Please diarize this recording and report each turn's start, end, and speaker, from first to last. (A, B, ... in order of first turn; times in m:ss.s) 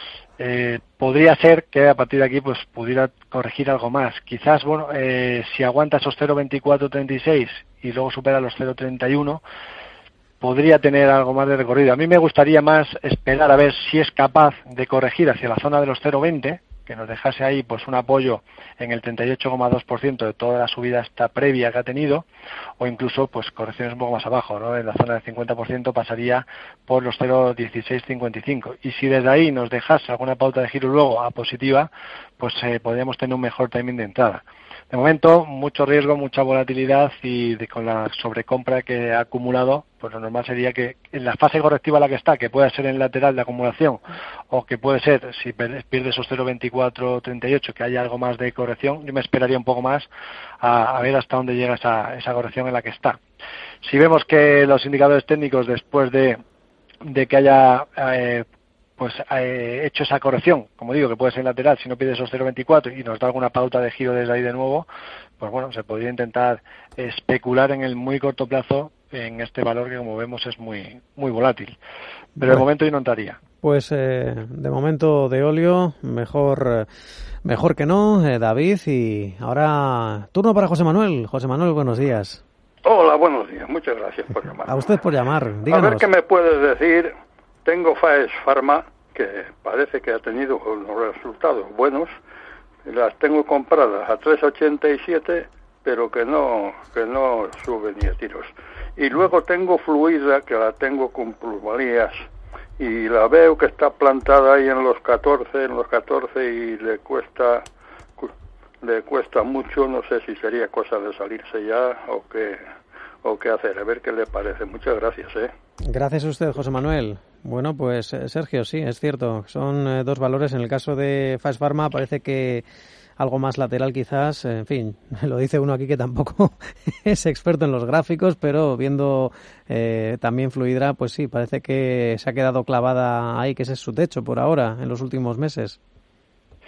0:00.4-0:09.4 A
0:10.4-0:22.3 A
0:22.8-0:50.1 A
0:50.6-0:53.2 A
0:53.8-0:56.4 A
0:57.0-0:58.5 A
0:59.0-1:04.9 A
1:05.4-1:11.8 A
1:12.4-1:13.4 A
1:13.6-1:16.9 B
1:17.4-1:22.4 B
1:22.8-1:24.9 C
1:24.7-1:26.1 B
1:25.7-1:27.1 C
1:27.7-1:32.2 C
1:32.9-1:42.3 C
1:42.8-1:47.7 C
1:48.2-1:52.6 C
1:53.2-1:55.5 C
1:55.8-2:02.6 B
2:03.2-2:15.8 B